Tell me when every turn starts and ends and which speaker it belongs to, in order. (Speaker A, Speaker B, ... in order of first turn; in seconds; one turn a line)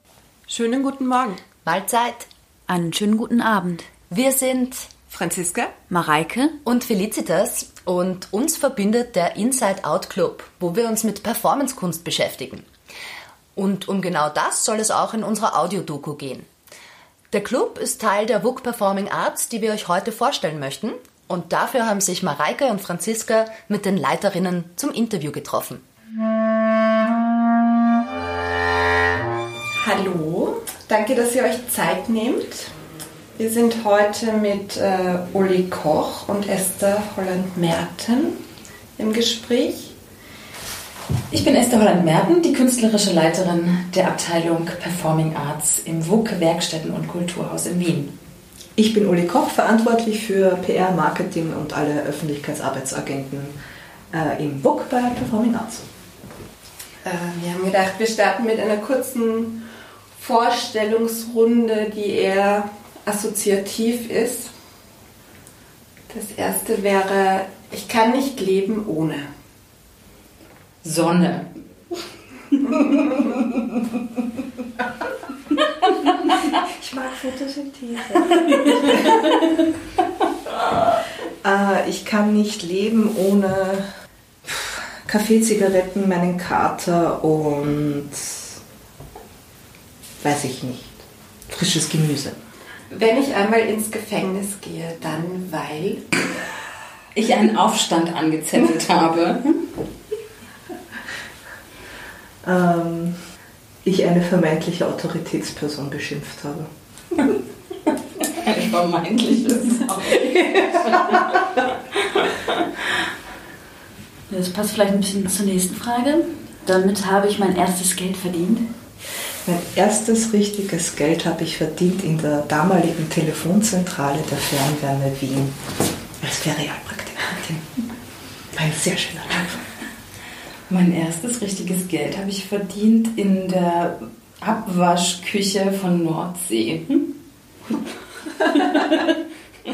Speaker A: 0.5-1.4
Speaker B: 1.6-2.3
Speaker C: 2.7-3.9
Speaker B: 4.0-5.0
Speaker A: 5.1-5.8
Speaker C: 5.9-6.6
Speaker B: 6.6-12.7
Speaker B: 13.5-16.5
Speaker B: 17.3-25.8
Speaker A: 29.8-32.7
Speaker A: 33.4-38.4
Speaker A: 39.0-39.9
Speaker D: 41.3-48.1
Speaker E: 48.8-53.5
Speaker E: 54.1-55.9
Speaker A: 57.0-59.6
Speaker A: 60.1-64.5
Speaker A: 66.1-69.3
Speaker D: 70.8-71.5
Speaker E: 76.5-79.0
Speaker E: 81.4-83.8
Speaker E: 84.4-88.6
Speaker E: 90.2-92.4
Speaker A: 92.9-96.3
Speaker D: 97.1-99.5
Speaker E: 102.4-103.2
Speaker E: 103.8-106.7
Speaker D: 108.2-112.5
Speaker C: 114.3-118.7
Speaker E: 119.4-125.6
Speaker E: 126.2-127.8
Speaker E: 128.5-129.6
Speaker D: 130.7-137.1
Speaker D: 138.5-138.9